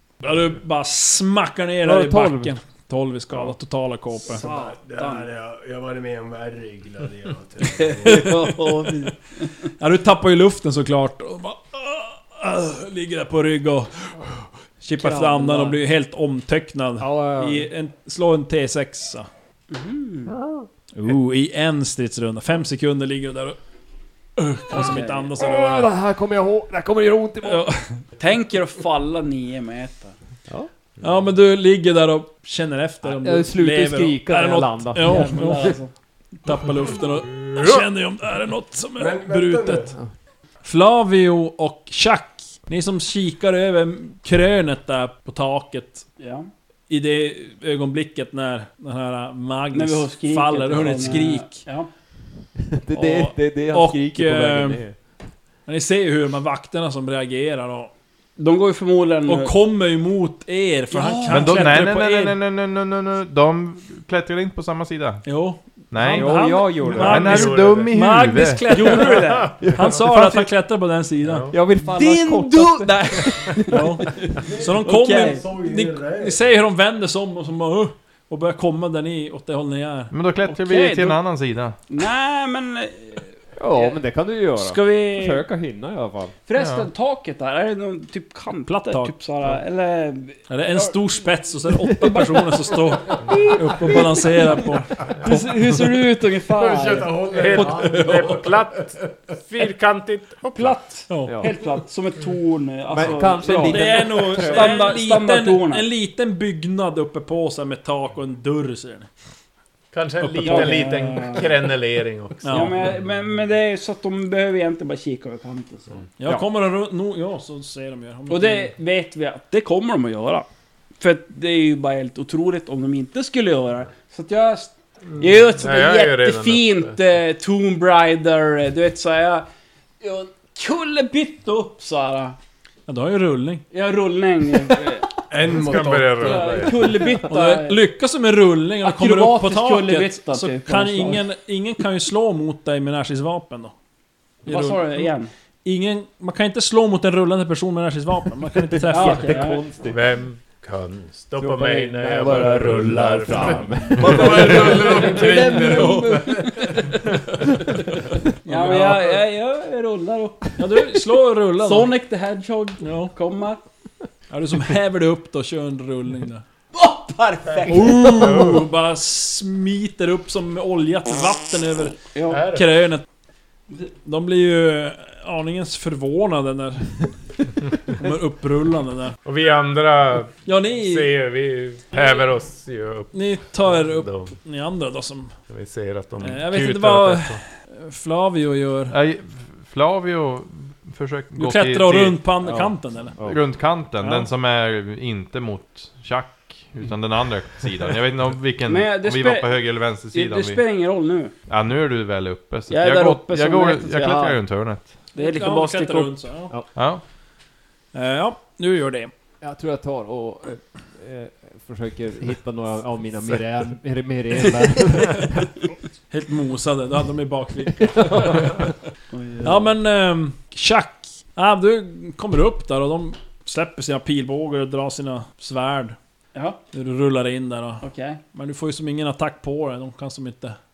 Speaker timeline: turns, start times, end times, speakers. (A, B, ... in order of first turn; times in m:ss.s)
0:00.2-0:04.4 A
0:01.8-0:02.6 B
0:04.3-0:05.3 C
0:04.3-0:08.4 D
0:08.0-0:09.5 C
0:08.0-0:08.9 A
0:09.8-0:19.3 A
0:15.0-0:15.8 B
0:17.0-0:17.7 B
0:19.7-0:20.3 C
0:20.3-0:20.7 B
0:20.9-0:23.6 A
0:24.4-0:25.9 A
0:24.7-0:25.3 C
0:24.8-0:27.7 B
0:27.4-0:28.0 A
0:28.2-0:30.2 C
0:31.0-0:35.8 A
0:33.1-0:35.8 B
0:35.0-0:35.9 C
0:36.4-0:39.9 A
0:39.0-0:39.9 D
0:40.6-0:46.1 A
0:46.2-0:46.5 C
0:46.9-0:51.6 A
0:49.7-0:51.9 C
0:52.7-0:55.0 B
0:52.9-0:54.8 A
0:55.7-0:57.9 A
0:58.4-0:59.5 C
0:59.3-1:02.3 A
1:00.9-1:01.7 C
1:01.3-1:05.2 E
1:01.7-1:02.3 B
1:05.2-1:11.5 A
1:05.9-1:08.9 E
1:06.0-1:07.4 B
1:07.1-1:07.9 F
1:08.7-1:09.5 C
1:08.7-1:10.1 F
1:09.6-1:10.0 B
1:10.2-1:10.5 E
1:11.2-1:11.6 F
1:11.5-1:14.3 B
1:11.9-1:13.8 C
1:13.7-1:20.1 A
1:14.4-1:16.4 D
1:14.8-1:15.4 C
1:20.1-1:21.8 E
1:20.4-1:21.2 C
1:21.9-1:24.0 C
1:23.6-1:26.4 B
1:24.6-1:25.5 C
1:26.5-1:31.2 C
1:26.6-1:26.9 E
1:28.9-1:29.1 A
1:30.5-1:35.3 A
1:31.8-1:34.6 C
1:35.2-1:38.4 C
1:36.5-1:39.1 D
1:37.3-1:40.8 F
1:37.8-1:38.1 A
1:40.5-1:45.9 C
1:41.1-1:41.4 A
1:41.3-1:41.5 B
1:42.9-1:44.8 B
1:43.6-1:49.1 A
1:49.9-1:52.9 F
1:50.2-1:51.3 A
1:50.4-1:51.5 C
1:52.4-1:52.8 A
1:52.5-1:56.0 C
1:56.2-1:58.7 A
1:58.3-2:00.5 C
2:01.0-2:09.5 C
2:05.1-2:07.0 F
2:10.0-2:12.4 C
2:12.9-2:13.6 A
2:13.7-2:15.1 C
2:15.3-2:16.9 D
2:15.5-2:16.9 F
2:16.2-2:17.8 C
2:17.1-2:23.7 A
2:18.8-2:21.2 C
2:24.4-2:25.1 A
2:24.5-2:25.3 C
2:25.6-2:29.4 A
2:28.9-2:30.0 B
2:28.9-2:29.6 C
2:29.9-2:35.1 F
2:31.4-2:35.8 B
2:34.0-2:36.8 D
2:34.0-2:37.0 C
2:34.9-2:36.1 A
2:38.4-2:39.2 A
2:38.4-2:40.6 C
2:40.6-2:41.9 A
2:41.6-2:43.6 C
2:42.8-2:43.1 A
2:44.3-2:46.4 A
2:46.7-2:48.3 C
2:47.7-2:53.0 A
2:48.0-2:48.6 F
2:52.2-2:52.4 C
2:52.3-2:52.7 F
2:54.0-2:57.1 A
2:57.9-2:59.2 A
2:59.2-3:04.4 F
3:00.4-3:01.1 A
3:03.1-3:05.3 A
3:05.5-3:07.4 F
3:06.2-3:09.0 A
3:08.9-3:12.3 E
3:11.3-3:13.2 A
3:12.4-3:13.5 B
3:13.2-3:20.6 E
3:14.0-3:14.3 A
3:18.7-3:21.3 C
3:21.5-3:25.0 E
3:22.7-3:24.4 C
3:25.1-3:26.3 C
3:25.2-3:26.5 A
3:26.7-3:27.0 E
3:27.9-3:29.1 A
3:29.4-3:35.5 B
3:36.1-3:38.8 A
3:38.1-3:38.4 B
3:39.1-3:39.7 C
3:39.4-3:46.0 A
3:46.3-3:46.6 C
3:46.7-3:50.6 A
3:47.8-3:48.2 C